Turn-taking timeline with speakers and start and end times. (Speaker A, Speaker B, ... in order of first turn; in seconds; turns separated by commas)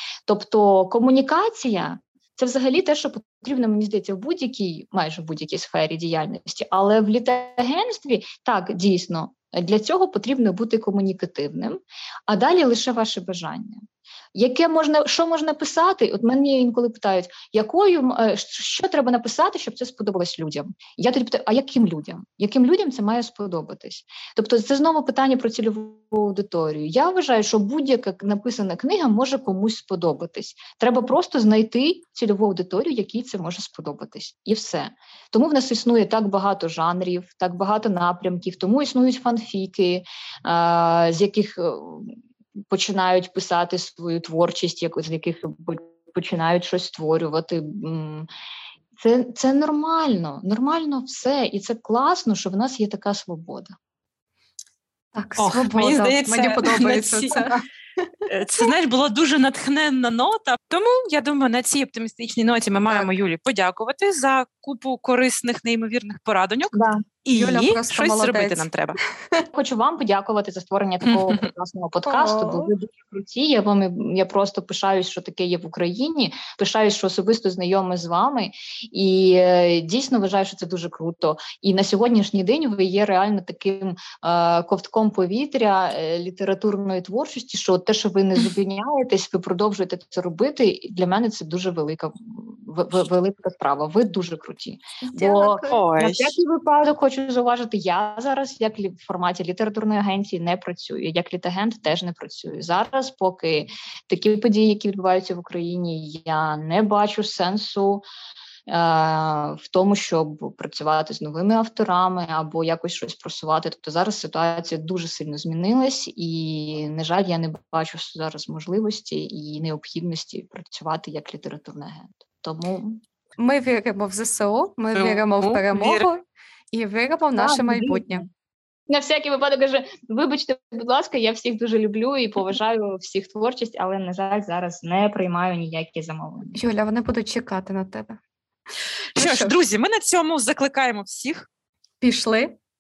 Speaker A: 0.3-13.8, Speaker A: 14.3-48.3, Speaker A: 49.0-53.8, Speaker B: 55.1-57.6, Speaker C: 55.4-57.5, Speaker C: 58.3-69.0, Speaker A: 66.7-67.0, Speaker B: 67.3-68.7, Speaker A: 69.5-108.0, Speaker C: 71.1-71.5, Speaker B: 72.0-72.7, Speaker C: 95.1-96.3, Speaker A: 108.7-123.0, Speaker B: 123.4-128.2, Speaker C: 124.9-126.1, Speaker A: 127.4-128.3, Speaker A: 128.9-136.6, Speaker B: 136.6-138.2, Speaker C: 139.2-141.5, Speaker B: 139.2-139.5, Speaker B: 142.0-142.6